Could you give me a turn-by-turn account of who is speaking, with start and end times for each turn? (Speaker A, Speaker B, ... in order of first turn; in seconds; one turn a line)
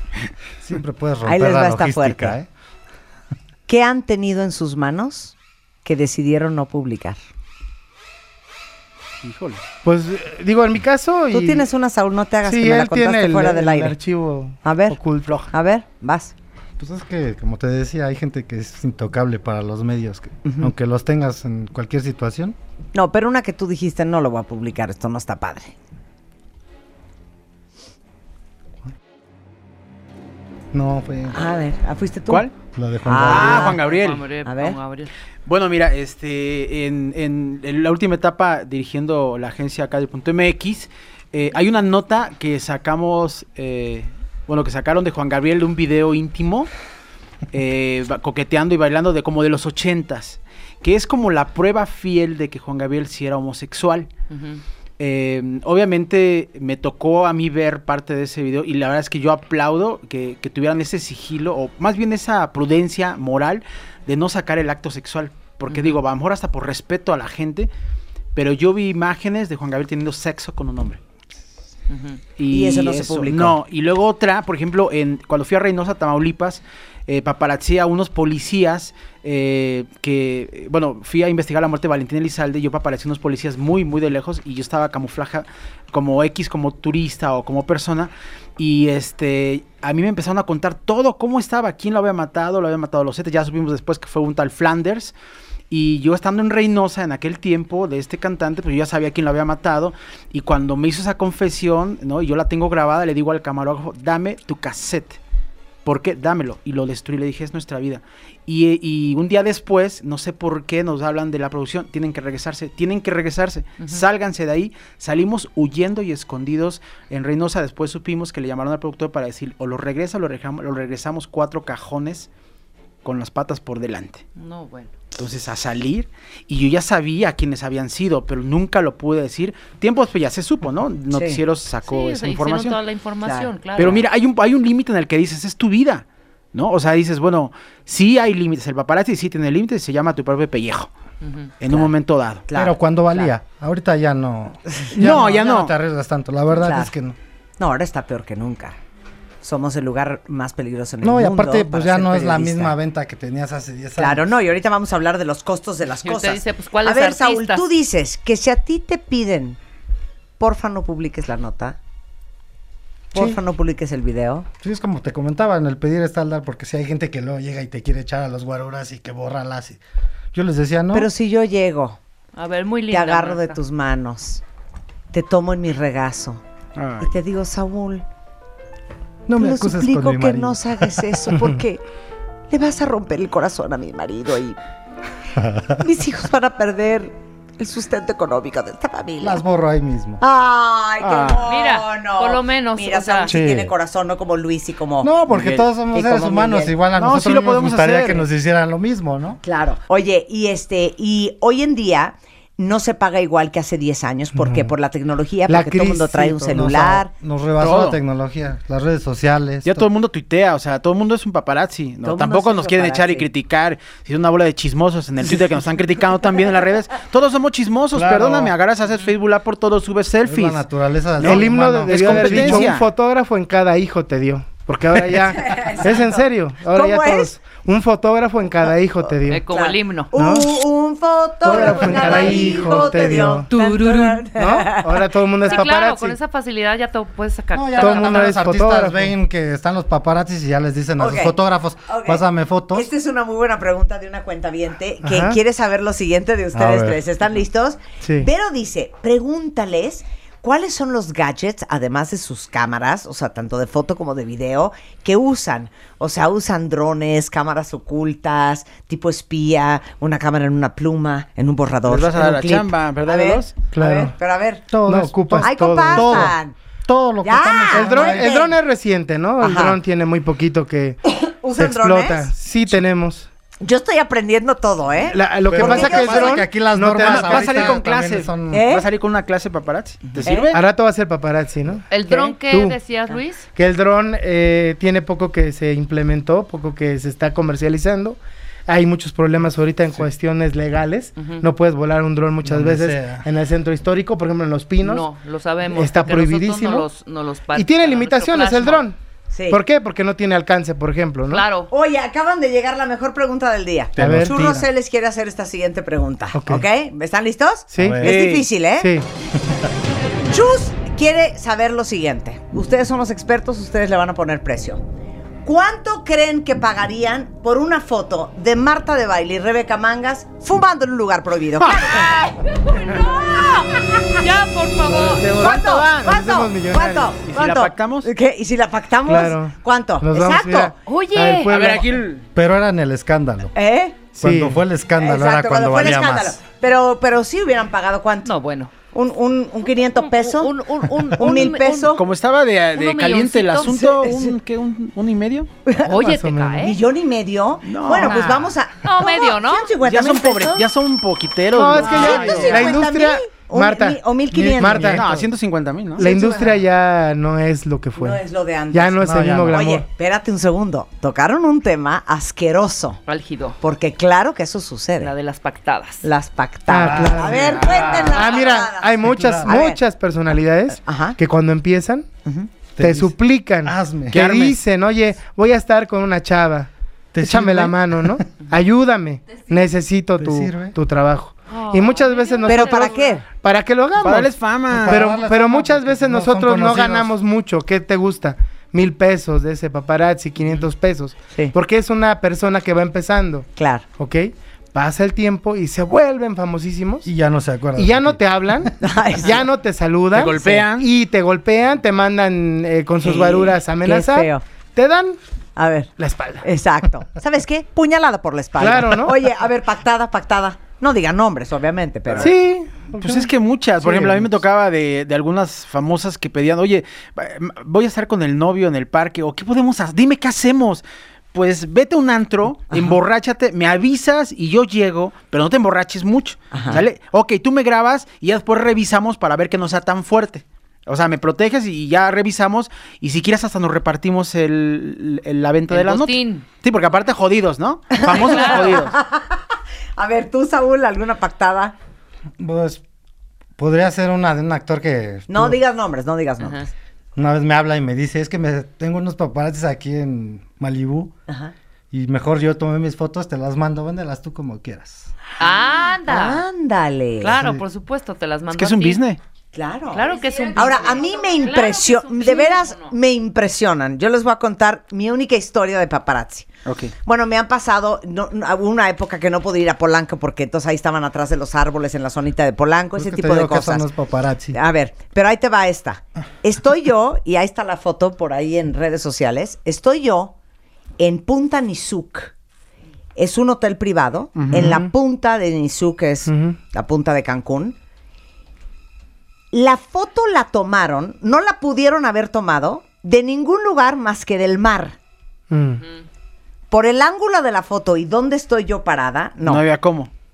Speaker A: 0.6-2.5
Speaker B: 1.2-2.4
Speaker B: 3.7-7.2
Speaker C: 9.2-9.6
Speaker D: 9.8-11.7
Speaker B: 11.3-13.9
Speaker D: 12.4-15.4
Speaker B: 14.6-16.3
Speaker A: 16.8-22.6
Speaker B: 20.4-20.7
Speaker B: 22.9-25.7
Speaker A: 30.7-31.4
Speaker B: 31.3-32.5
Speaker A: 32.7-33.8
Speaker B: 33.0-33.8
Speaker C: 33.1-34.3
Speaker E: 33.6-35.1
Speaker B: 34.4-34.8
Speaker C: 35.5-46.7
Speaker C: 47.5-54.1
Speaker E: 54.3-54.6
Speaker C: 55.0-67.7
Speaker E: 65.7-66.0
Speaker C: 68.3-71.0
Speaker E: 71.9-72.2
Speaker C: 72.4-95.1
Speaker B: 72.5-73.6
Speaker C: 95.7-105.2
Speaker C: 105.8-122.3
Speaker C: 123.0-124.2
Speaker E: 124.3-124.9
Speaker C: 125.1-132.8
Speaker B: 131.1-131.4
Speaker E: 131.8-134.0
Speaker B: 133.2-133.5
Speaker C: 133.8-140.9
Speaker E: 141.2-141.5
Speaker C: 141.6-142.4
Speaker B: 142.5-143.3
Speaker A: 142.5-147.2
Speaker B: 144.8-145.2
Speaker C: 144.9-145.7
Speaker B: 146.6-146.9
Speaker B: 147.6-148.8
Speaker B: 149.4-152.7
Speaker A: 151.0-154.3
Speaker B: 154.0-159.6
Speaker E: 156.0-157.6
Speaker B: 160.4-161.8
Speaker B: 163.1-164.5
Speaker A: 163.1-163.4
Speaker A: 164.6-169.8
Speaker A: 170.3-171.1
Speaker B: 170.9-172.0
Speaker E: 172.3-173.6
Speaker B: 172.9-174.4
Speaker B: 175.1-176.4
Speaker C: 176.8-177.1
Speaker B: 177.0-178.0
Speaker A: 179.3-181.2
Speaker B: 179.4-181.8
Speaker D: 181.3-181.6
Speaker B: 182.5-184.6
Speaker A: 185.4-185.8
Speaker B: 185.8-189.4
Speaker A: 189.2-190.2
Speaker B: 190.2-195.1
Speaker C: 191.0-191.5
Speaker E: 191.4-193.3
Speaker A: 193.3-193.7
Speaker A: 195.0-199.4
Speaker C: 195.3-195.7
Speaker B: 195.9-196.7
Speaker C: 197.0-198.2
Speaker B: 199.4-207.1
Speaker D: 204.3-204.7
Speaker D: 205.5-206.6
Speaker A: 206.5-209.9
Speaker C: 207.6-208.0
Speaker C: 209.6-222.8
Speaker B: 212.0-213.3
Speaker A: 217.9-218.5
Speaker A: 220.2-222.8
Speaker D: 221.2-229.4
Speaker B: 225.3-227.3
Speaker E: 229.2-230.1
Speaker B: 229.5-235.1
Speaker D: 230.1-230.6
Speaker A: 231.4-233.2
Speaker D: 231.4-233.5
Speaker E: 233.5-234.3
Speaker D: 234.3-236.2
Speaker E: 235.4-238.2
Speaker A: 237.5-242.9
Speaker D: 237.8-239.1
Speaker B: 241.0-264.7
Speaker D: 245.0-245.4
Speaker A: 246.5-247.0
Speaker D: 248.0-248.3
Speaker C: 261.8-263.5
Speaker D: 263.7-264.1
Speaker A: 264.7-268.3
Speaker D: 264.9-266.3
Speaker B: 265.4-266.5
Speaker B: 267.2-268.6
Speaker D: 267.7-273.3
Speaker B: 269.4-269.8
Speaker B: 271.3-272.3
Speaker B: 273.6-276.5
Speaker D: 275.1-277.8
Speaker A: 275.5-278.7
Speaker C: 277.0-280.6
Speaker B: 278.5-278.9
Speaker B: 280.2-280.5
Speaker D: 280.5-282.8
Speaker E: 281.9-283.5
Speaker D: 283.5-295.0
Speaker E: 291.2-291.4
Speaker A: 292.4-293.3
Speaker E: 294.8-298.9
Speaker D: 295.7-296.9
Speaker D: 297.5-299.0
Speaker B: 299.3-299.6
Speaker D: 299.5-301.4
Speaker E: 301.3-301.7
Speaker B: 301.7-308.9
Speaker A: 303.9-304.6
Speaker D: 304.0-304.4
Speaker D: 306.3-306.6
Speaker D: 307.7-308.1
Speaker A: 307.8-308.2
Speaker C: 308.0-308.5
Speaker D: 308.8-309.1
Speaker B: 310.3-314.8
Speaker B: 315.4-322.2
Speaker C: 321.6-321.9
Speaker E: 321.9-322.9
Speaker B: 322.7-324.2
Speaker E: 324.2-325.6
Speaker D: 324.9-327.1
Speaker B: 325.3-330.7
Speaker C: 327.3-328.1
Speaker D: 329.1-331.9
Speaker E: 330.8-331.5
Speaker C: 331.5-332.2
Speaker A: 332.3-333.5
Speaker B: 333.5-334.0
Speaker D: 334.1-334.6
Speaker A: 334.2-336.4
Speaker B: 335.0-338.3
Speaker E: 338.2-338.7
Speaker B: 338.8-342.0
Speaker E: 339.9-342.0
Speaker C: 341.9-345.5
Speaker E: 342.7-343.8
Speaker B: 343.8-344.4
Speaker B: 345.6-345.9
Speaker E: 345.8-346.8
Speaker D: 345.9-346.6
Speaker B: 346.6-350.7
Speaker C: 347.6-348.3
Speaker E: 347.9-349.8
Speaker C: 349.8-352.8
Speaker D: 351.5-354.0
Speaker A: 351.7-352.8
Speaker B: 351.8-355.0
Speaker A: 354.3-355.2
Speaker D: 354.6-355.0
Speaker C: 354.8-356.0
Speaker B: 356.0-356.6
Speaker D: 356.0-358.2
Speaker B: 357.9-363.0
Speaker D: 358.7-359.9
Speaker A: 359.0-359.6
Speaker E: 363.1-363.6
Speaker B: 363.6-365.1
Speaker E: 365.0-366.1
Speaker B: 366.0-369.8
Speaker D: 366.7-372.1
Speaker A: 366.8-368.3
Speaker E: 367.4-367.8
Speaker A: 369.0-369.5
Speaker B: 370.8-371.2
Speaker A: 372.8-374.6
Speaker D: 372.8-376.7
Speaker A: 377.1-378.2
Speaker D: 377.2-384.3
Speaker A: 380.2-380.8
Speaker E: 381.5-383.2
Speaker B: 382.4-383.2
Speaker C: 384.0-385.0
Speaker A: 384.7-387.1
Speaker D: 384.9-397.1
Speaker B: 393.6-393.8
Speaker A: 397.0-398.2
Speaker D: 397.8-405.2
Speaker B: 398.8-399.4
Speaker C: 400.1-400.9
Speaker B: 400.3-400.6
Speaker B: 403.0-404.4
Speaker B: 405.6-412.3
Speaker D: 406.0-406.5
Speaker D: 408.6-409.1
Speaker D: 412.2-414.3
Speaker C: 413.0-438.9
Speaker B: 426.5-426.8
Speaker E: 435.7-436.4
Speaker B: 437.9-441.7
Speaker E: 438.2-438.8
Speaker A: 442.4-442.8
Speaker A: 443.6-445.6
Speaker B: 445.3-446.7
Speaker E: 446.4-446.7
Speaker A: 447.1-451.1
Speaker B: 451.3-451.5
Speaker A: 451.9-455.1
Speaker E: 455.4-456.4
Speaker B: 455.4-457.3
Speaker E: 457.2-459.0
Speaker A: 457.3-457.6
Speaker C: 458.5-459.2
Speaker B: 459.5-466.5
Speaker E: 459.9-462.9
Speaker C: 466.6-466.9
Speaker B: 467.0-473.8
Speaker A: 472.9-474.6
Speaker B: 474.5-480.3
Speaker B: 481.0-482.3
Speaker B: 483.1-487.8
Speaker C: 484.4-484.8
Speaker D: 484.5-484.9
Speaker D: 486.3-486.6
Speaker B: 489.5-494.9
Speaker D: 495.5-495.8
Speaker B: 496.7-499.6
Speaker C: 499.4-500.1